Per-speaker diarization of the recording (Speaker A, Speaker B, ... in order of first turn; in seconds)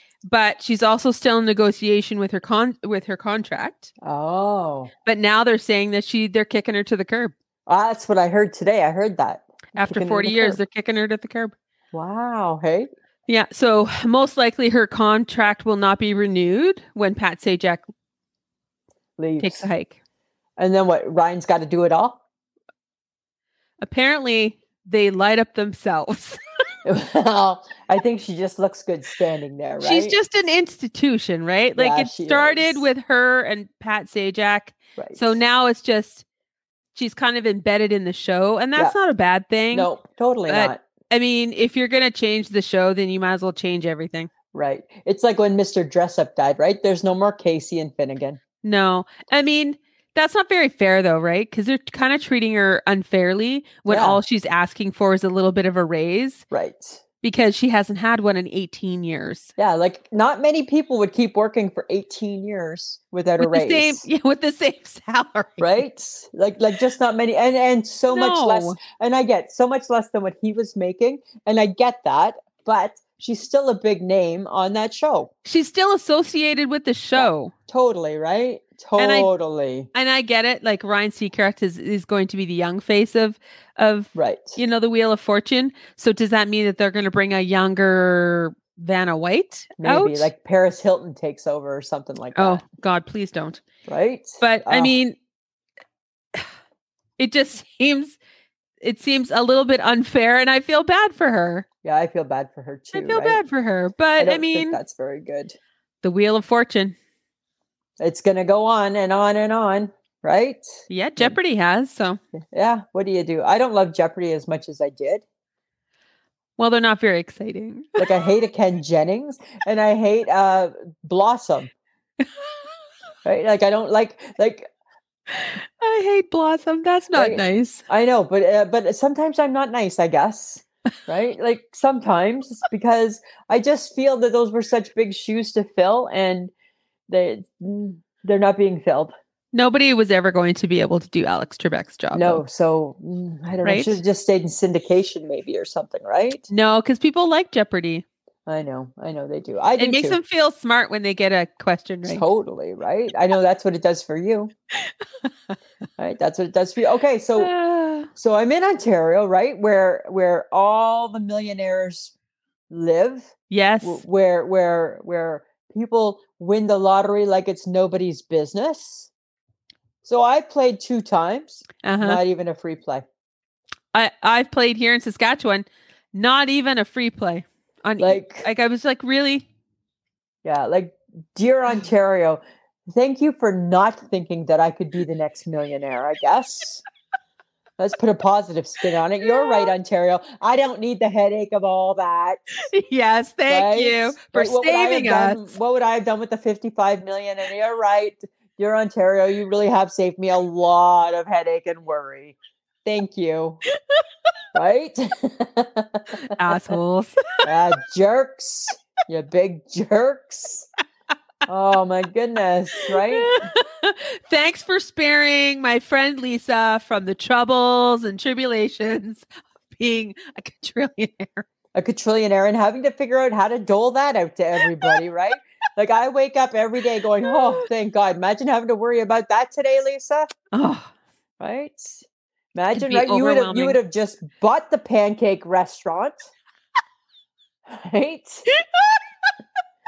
Speaker A: 0.2-3.9, 5.0-7.3, 9.7-11.6, 13.3-17.9, 19.4-20.0, 23.8-26.4, 29.8-36.2, 37.0-39.9, 40.5-44.3, 48.6-56.5, 57.2-59.5, 63.4-65.8, 68.1-68.8, 75.5-77.5, 79.0-79.3, 79.9-90.3, 92.3-93.6, 94.4-95.2, 97.2-98.2, 98.8-101.7, 102.9-104.8, 106.0-107.0, 110.9-112.2, 116.6-118.1, 122.2-122.6, 125.3-127.8, 139.5-142.4, 143.6-144.0, 146.5-148.1, 149.8-152.2, 154.8-155.5, 157.4-158.1, 163.5-164.0, 171.8-172.2, 173.9-179.5, 189.4-189.7, 192.7-195.6, 206.3-207.5, 212.8-221.4, 227.2-227.7, 230.5-230.9, 232.7-233.8, 238.7-239.0
Speaker B: 4.0-4.9, 7.7-10.6, 11.9-12.9, 19.2-19.7, 20.6-22.2, 26.9-30.2, 31.8-32.9, 35.0-35.4, 39.7-40.8, 44.5-48.4, 53.9-54.2, 56.5-57.0, 59.6-64.0, 65.6-75.3, 77.2-79.9, 84.2-84.6, 89.8-92.6, 93.9-94.9, 101.8-103.4, 104.2-105.6, 108.0-111.4, 112.4-115.2, 118.0-121.7, 123.2-124.7, 127.1-136.5, 137.1-139.1, 142.1-146.5, 148.5-150.2, 152.1-154.5, 156.0-157.5, 158.2-162.1, 162.7-169.1, 170.0-173.1, 178.0-178.5, 180.4-186.8, 187.8-192.7, 193.5-203.6, 204.5-206.7, 207.4-210.7, 211.5-213.4, 221.7-230.3, 231.4-236.3, 237.7-238.5